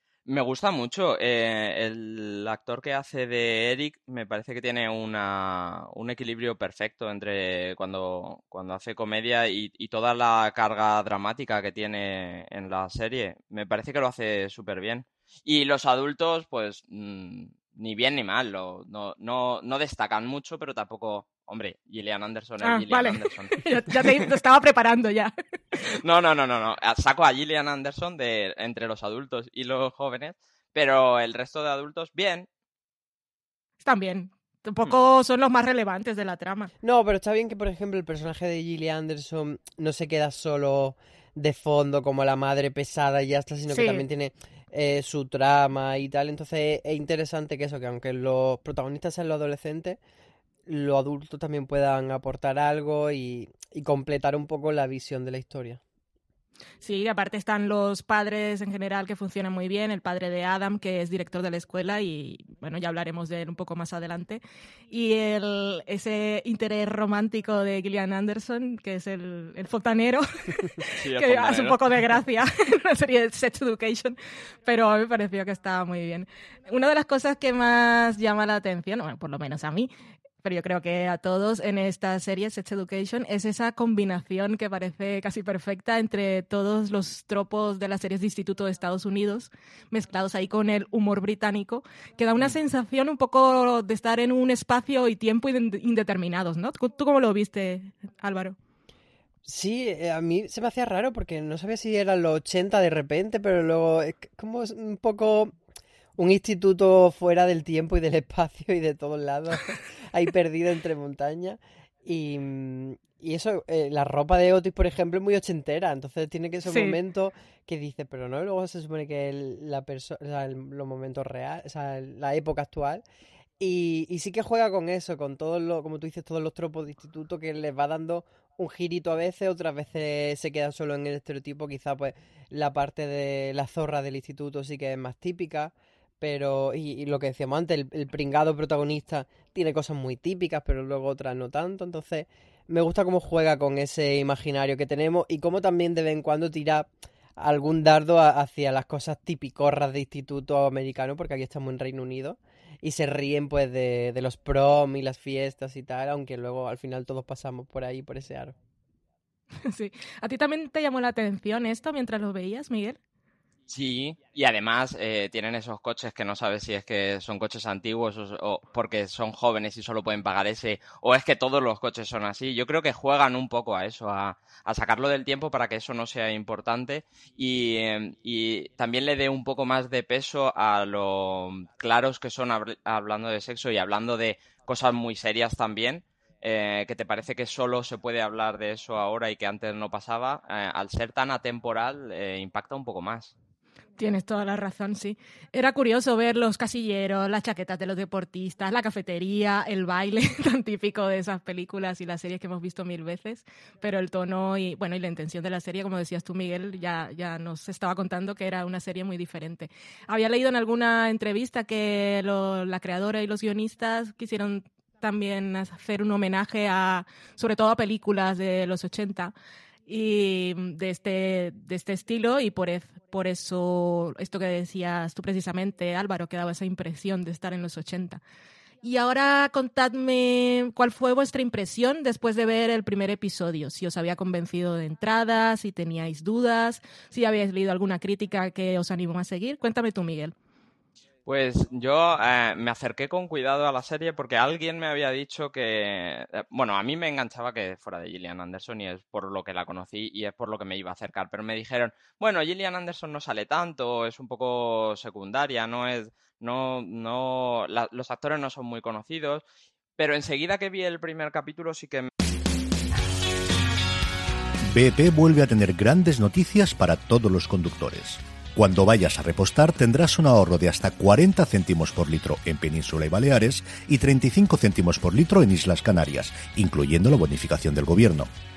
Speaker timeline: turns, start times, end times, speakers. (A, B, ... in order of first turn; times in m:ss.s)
0:00.3-0:24.2 A
0:22.6-0:25.8 B
0:26.0-0:32.5 A
0:33.8-0:36.7 B
0:36.8-0:50.0 C
0:43.7-0:44.0 B
0:50.7-0:55.8 C
0:56.8-1:19.9 B
1:11.0-1:11.8 A
1:20.4-1:38.6 B
1:39.4-1:45.6 C
1:46.2-2:03.0 C
1:56.7-1:57.0 B
2:03.6-2:38.6 C
2:39.6-2:43.0 B
2:43.7-3:13.3 A
3:14.0-3:39.3 B
3:39.9-3:48.2 B
3:48.8-4:00.3 B
4:01.3-4:19.4 A
4:20.0-4:22.1 A
4:24.7-4:38.3 D